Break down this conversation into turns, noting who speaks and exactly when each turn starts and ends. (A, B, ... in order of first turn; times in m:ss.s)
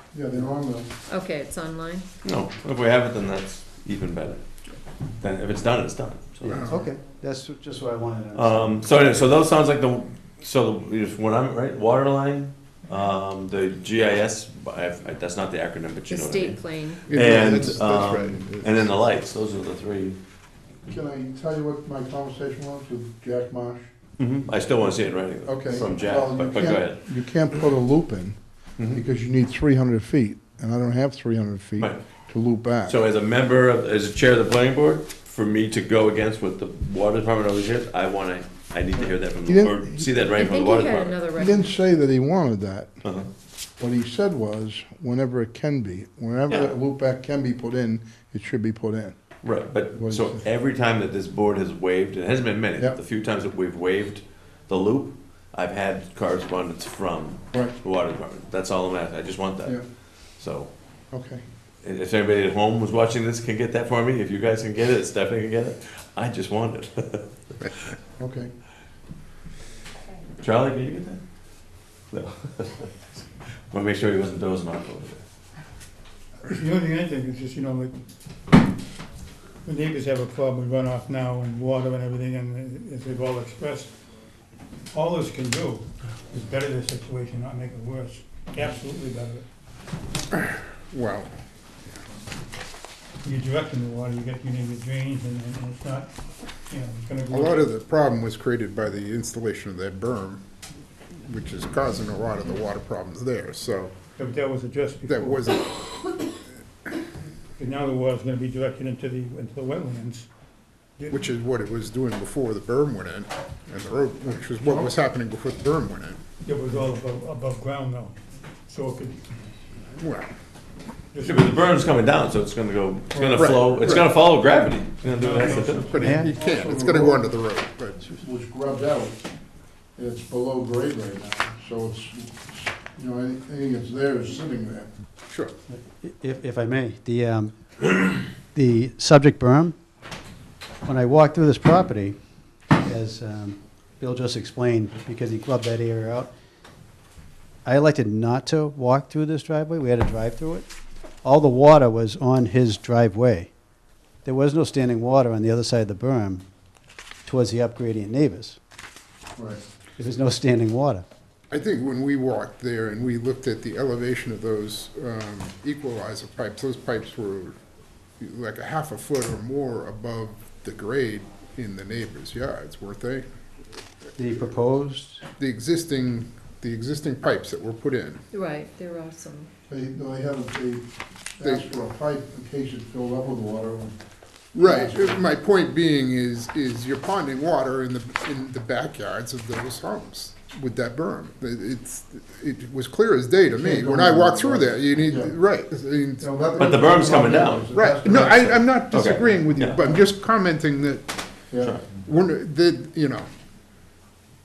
0:00.1-0:00.9 A
0:01.1-0:02.1 B
0:02.2-0:04.4 C
0:05.2-0:06.7 C
0:06.4-0:09.3 D
0:06.4-0:06.9 E
0:08.4-0:20.2 C
0:16.1-0:17.1 B
0:17.1-0:19.0 E
0:20.9-0:23.9 A
0:24.2-0:27.0 C
0:25.4-0:33.0 A
0:32.9-0:41.2 C
0:39.4-0:40.2 A
0:40.3-0:41.7 B
0:41.4-0:43.0 A
0:43.0-0:43.3 C
0:43.8-0:49.2 A
0:49.4-0:59.8 C
0:49.9-0:50.4 A
1:00.4-1:00.7 C
1:01.1-1:01.4 A
1:01.8-1:07.3 C
1:08.2-1:08.5 A
1:10.4-1:11.2 C
1:12.1-1:12.9 C
1:13.7-1:15.2 C
1:16.4-1:17.9 F
1:19.6-1:23.9 F
1:24.9-1:29.4 F
1:30.4-1:31.3 E
1:33.2-1:36.1 F
1:36.7-1:37.7 F
1:37.3-1:40.4 E
1:41.2-1:43.9 E
1:44.2-1:45.5 F
1:45.1-1:46.3 E
1:47.6-1:50.3 F
1:51.1-1:56.2 E
1:56.4-1:59.2 F
2:00.0-2:00.3 E
2:01.1-2:01.5 F
2:01.2-2:05.9 C
2:03.1-2:03.4 A
2:03.4-2:04.0 E
2:05.1-2:05.7 F
2:05.2-2:07.3 A
2:05.7-2:08.0 E
2:06.0-2:06.3 D
2:08.0-2:09.2 A
2:10.0-2:14.9 A
2:15.7-2:19.8 D
2:20.8-2:22.2 D
2:22.8-2:26.3 D
2:27.7-2:30.7 D
2:31.2-2:33.5 D
2:34.2-2:36.4 D
2:37.2-2:38.6 D
2:39.4-2:39.6 A
2:40.0-2:41.0 D
2:41.5-2:47.6 E
2:48.2-2:53.3 E
2:54.2-2:55.2 D
2:55.4-2:58.2 E
2:58.3-2:59.5 B
2:59.7-3:00.9 A
3:01.4-3:04.0 A
3:04.6-3:05.2 A
3:04.6-3:21.3 E
3:13.5-3:15.4 A
3:16.2-3:20.0 A
3:16.6-3:19.8 C
3:21.5-3:21.8 A
3:21.9-3:23.3 E